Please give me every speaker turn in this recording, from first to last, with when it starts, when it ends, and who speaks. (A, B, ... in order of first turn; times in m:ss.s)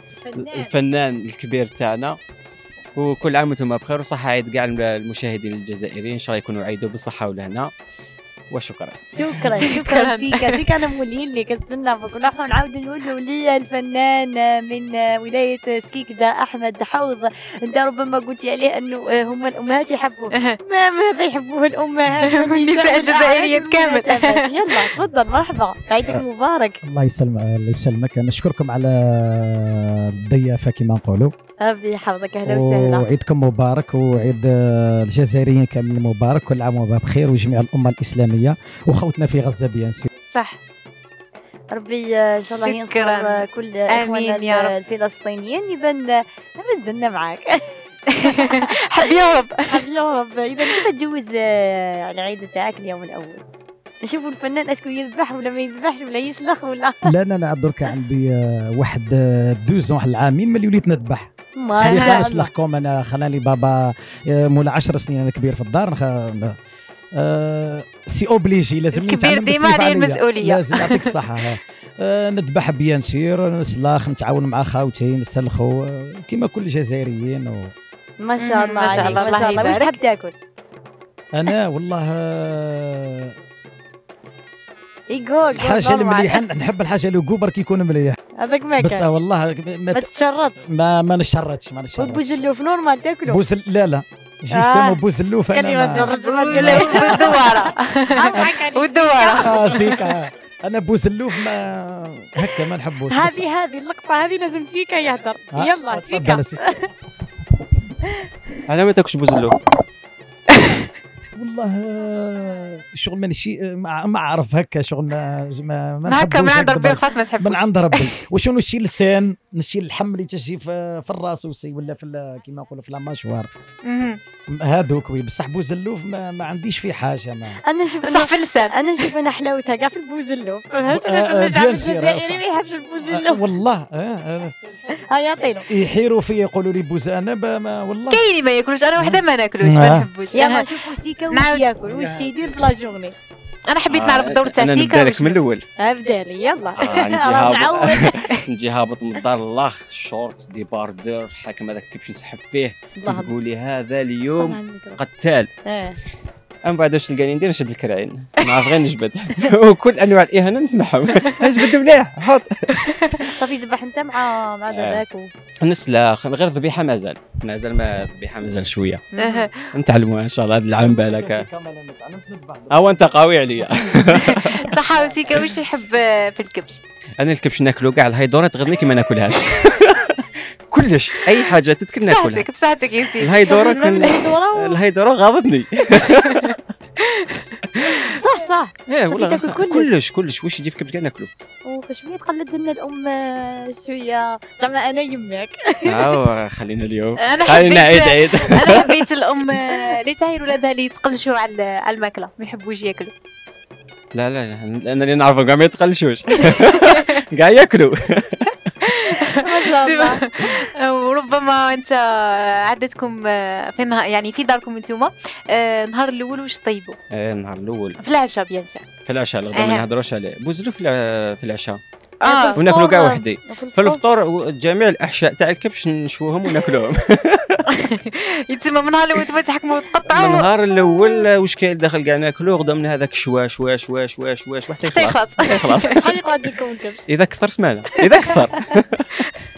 0:00.2-0:00.7 A
0:00.4-0:02.2 B
0:03.0-0:07.7 B
0:08.5-0:09.4 B
0:09.2-0:26.8 A
0:09.5-0:10.6 C
0:22.2-0:24.9 C
0:26.8-0:31.3 D
0:31.6-0:33.1 A
0:32.4-0:40.1 D
0:40.3-0:40.6 C
0:41.7-0:49.1 A
0:42.5-0:44.7 C
0:48.1-0:49.8 C
0:49.7-0:53.4 A
0:54.0-0:57.0 A
0:57.0-1:06.5 D
1:01.6-1:02.5 A
1:01.8-1:02.2 C
1:07.2-1:17.7 D
1:08.9-1:11.1 C
1:18.2-1:20.3 A
1:18.4-1:19.9 C
1:21.3-1:23.3 D
1:25.1-1:26.4 A
1:25.5-1:28.2 D
1:28.4-1:29.0 A
1:28.8-1:30.1 D
1:29.9-1:30.6 A
1:30.6-1:32.4 D
1:32.0-1:33.4 A
1:33.3-1:37.4 D
1:34.5-1:35.0 A
1:35.5-1:39.9 A
1:35.9-1:40.0 C
1:39.4-1:43.4 D
1:43.1-1:46.9 A
1:45.5-1:46.6 D
1:48.7-1:49.6 B
1:51.3-2:03.5 D
1:56.0-1:58.1 C
2:03.8-2:04.2 C
2:04.5-2:07.6 D
2:07.7-2:13.4 A
2:08.0-2:09.1 C
2:10.9-2:12.4 D
2:13.1-2:14.5 D
2:15.1-2:15.7 A
2:15.7-2:18.2 D
2:18.1-2:20.6 C
2:19.0-2:20.1 D
2:20.3-2:23.1 A
2:21.3-2:21.6 C
2:23.7-2:25.4 C
2:23.9-2:25.6 B
2:25.8-2:28.2 A
2:26.8-2:35.5 B
2:33.0-2:33.3 A
2:34.4-2:35.0 A
2:35.6-2:36.0 A
2:36.6-2:42.8 B
2:42.8-2:43.3 C
2:43.4-2:45.3 A
2:44.7-2:45.0 B
2:45.6-2:49.0 B
2:49.2-2:49.7 C
2:49.2-2:49.4 A
2:49.7-2:51.4 B
2:50.8-2:53.1 D
2:52.7-2:54.7 B
2:54.1-2:56.8 C
2:54.9-2:55.4 D
2:57.2-3:02.5 B
3:02.0-3:04.3 C
3:03.2-3:06.6 B
3:03.5-3:04.8 A
3:06.2-3:08.0 C
3:07.7-3:08.0 B
3:08.1-3:09.9 A
3:08.9-3:11.3 B
3:11.6-3:16.1 A
3:15.8-3:19.0 B
3:17.2-3:23.1 C
3:24.1-3:28.5 B
3:26.6-3:27.1 C
3:28.8-3:37.0 C
3:29.3-3:30.2 A
3:37.1-3:38.0 B
3:38.0-3:38.8 C
3:39.0-3:41.8 B
3:39.5-3:39.8 C
3:42.2-3:42.6 C
3:42.2-3:44.0 A
3:42.6-3:47.6 B
3:47.7-3:50.5 C
3:50.1-3:56.0 B
3:54.8-3:56.0 C
3:56.0-3:57.0 A
3:57.1-3:59.1 B